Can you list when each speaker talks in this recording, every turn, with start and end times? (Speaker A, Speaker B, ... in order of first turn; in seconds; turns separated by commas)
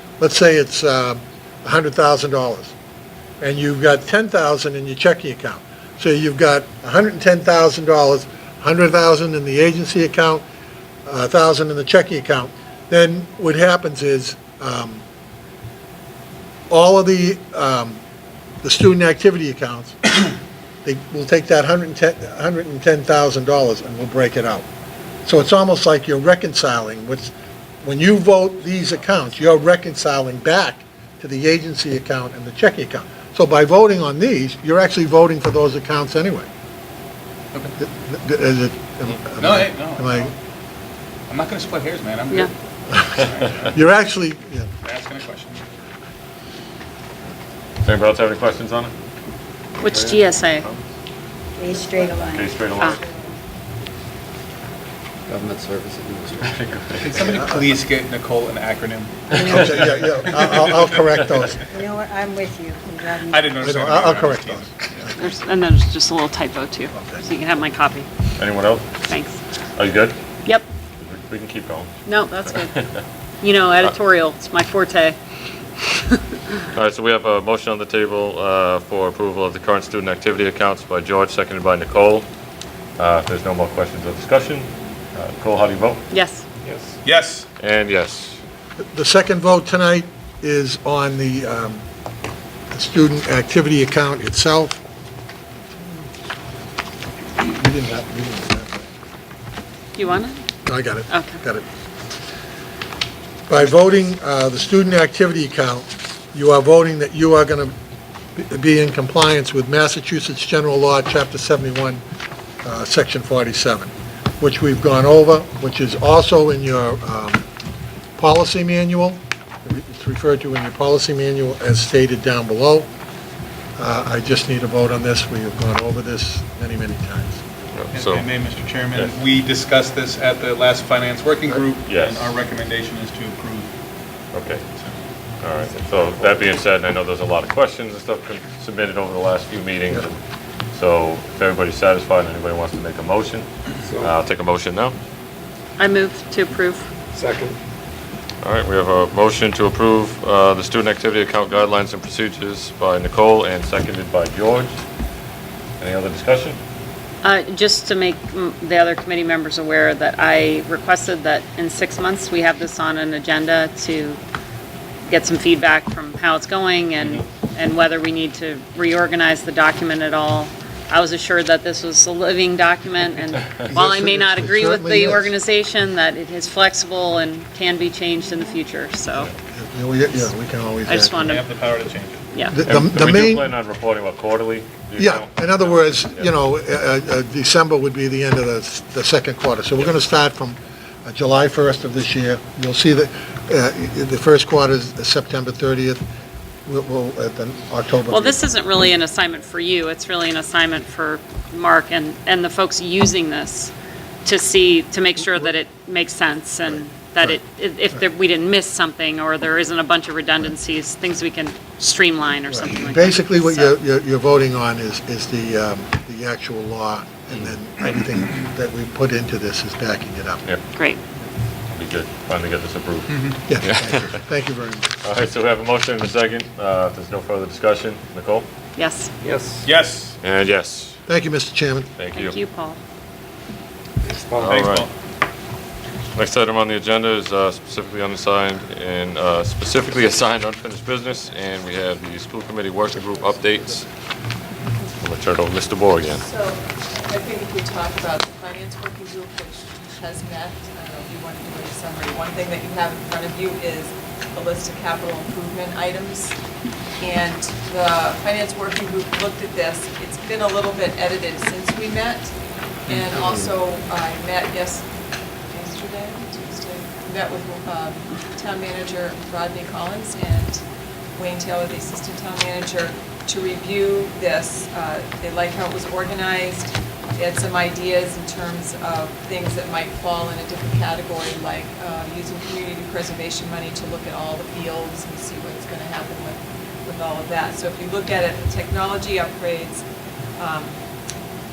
Speaker A: 0.2-2.7, Speaker A: 3.4-10.4, Speaker A: 11.1-15.0, Speaker A: 16.7-18.0, Speaker A: 18.6-20.1, Speaker A: 20.8-24.6, Speaker A: 25.2-36.5, Speaker A: 37.8-40.3, Speaker B: 39.3-40.3, Speaker B: 41.3-42.5, Speaker A: 42.9-44.7, Speaker B: 43.1-43.8, Speaker B: 44.8-45.7, Speaker C: 47.8-48.9, Speaker D: 49.8-50.6, Speaker C: 49.8-50.9, Speaker E: 51.6-52.6, Speaker C: 52.2-53.0, Speaker F: 55.3-56.5, Speaker C: 56.4-57.2, Speaker B: 57.0-61.2, Speaker A: 57.1-57.8, Speaker E: 59.4-59.7, Speaker A: 59.4-61.6, Speaker E: 61.7-63.6, Speaker B: 63.2-65.1, Speaker A: 63.6-65.2, Speaker D: 65.2-68.1, Speaker A: 66.9-67.2, Speaker C: 68.4-68.9, Speaker D: 69.1-69.4, Speaker C: 69.8-70.2, Speaker C: 71.0-71.9, Speaker D: 72.0-72.8, Speaker C: 72.5-73.0, Speaker D: 73.4-75.2, Speaker C: 76.7-82.2, Speaker C: 83.0-86.0, Speaker D: 86.1-86.4, Speaker B: 87.0-87.5, Speaker C: 87.6-88.4, Speaker A: 88.9-91.8, Speaker A: 92.7-94.8, Speaker A: 97.4-98.8, Speaker D: 100.0-100.4, Speaker A: 100.7-101.6, Speaker D: 101.1-101.4, Speaker A: 103.5-107.7, Speaker A: 108.4-112.0, Speaker A: 112.6-117.4, Speaker A: 118.2-122.9, Speaker A: 123.8-127.4, Speaker C: 127.7-128.3, Speaker B: 127.9-133.7, Speaker C: 131.8-132.3, Speaker C: 134.3-134.6, Speaker C: 135.4-140.2, Speaker C: 140.7-144.9, Speaker D: 145.8-146.9, Speaker F: 147.1-147.6, Speaker C: 148.4-154.8, Speaker C: 155.8-156.6, Speaker D: 157.2-164.2, Speaker D: 165.1-179.3, Speaker A: 173.7-175.3, Speaker A: 179.5-181.3, Speaker D: 180.8-181.4, Speaker B: 181.2-182.2, Speaker A: 182.5-183.5, Speaker C: 182.7-186.3, Speaker A: 185.0-196.0, Speaker A: 196.7-198.5, Speaker D: 198.1-203.7, Speaker D: 204.2-213.7, Speaker A: 205.2-205.5, Speaker A: 206.7-207.4, Speaker A: 212.5-220.4, Speaker D: 220.7-221.0, Speaker C: 221.7-224.0, Speaker A: 223.5-224.9, Speaker C: 225.0-228.5, Speaker D: 228.8-229.1, Speaker F: 229.2-229.7, Speaker B: 229.6-230.2, Speaker C: 230.2-231.0, Speaker A: 231.1-231.9, Speaker C: 232.0-232.4, Speaker D: 232.1-232.8, Speaker B: 234.1-234.9, Speaker F: 234.2-234.6, Speaker C: 234.4-234.9, Speaker C: 236.1-243.9, Speaker C: 245.0-246.2, Speaker G: 246.1-256.4, Speaker G: 257.0-262.3, Speaker G: 262.9-264.9, Speaker G: 265.5-270.6, Speaker G: 271.1-289.8, Speaker G: 290.4-290.8